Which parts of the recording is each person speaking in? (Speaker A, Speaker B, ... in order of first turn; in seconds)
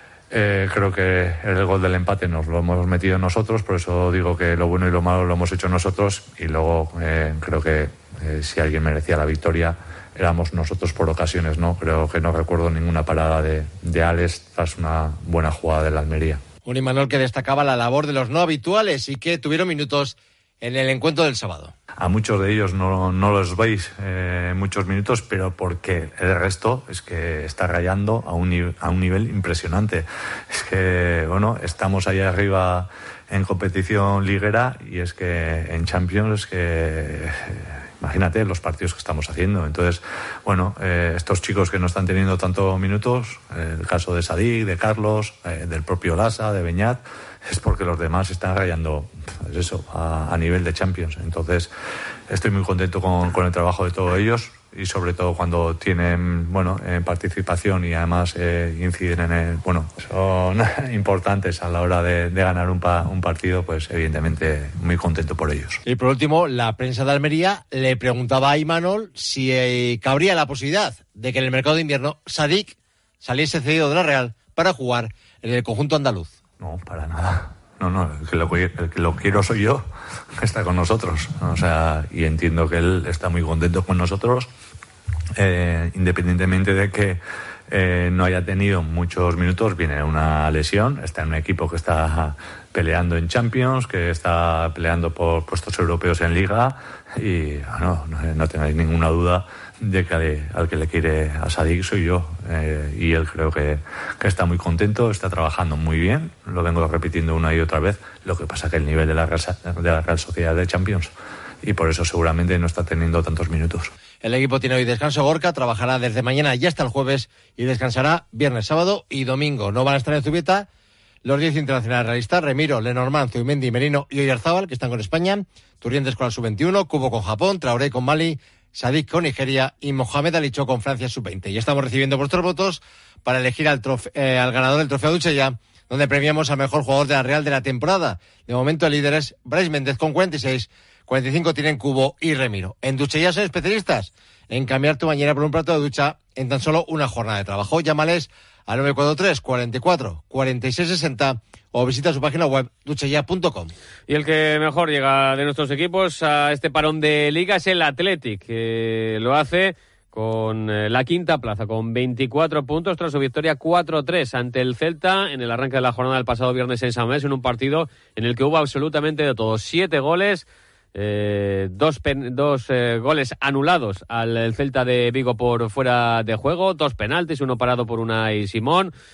Speaker A: 0.3-16.4, 22.0-51.7, 52.3-65.8, 76.6-79.9, 80.4-84.5, 85.4-111.1, 111.6-113.9
Speaker B: 16.6-21.7, 65.8-76.3, 114.2-120.7, 121.2-153.7
Speaker C: 154.1-178.9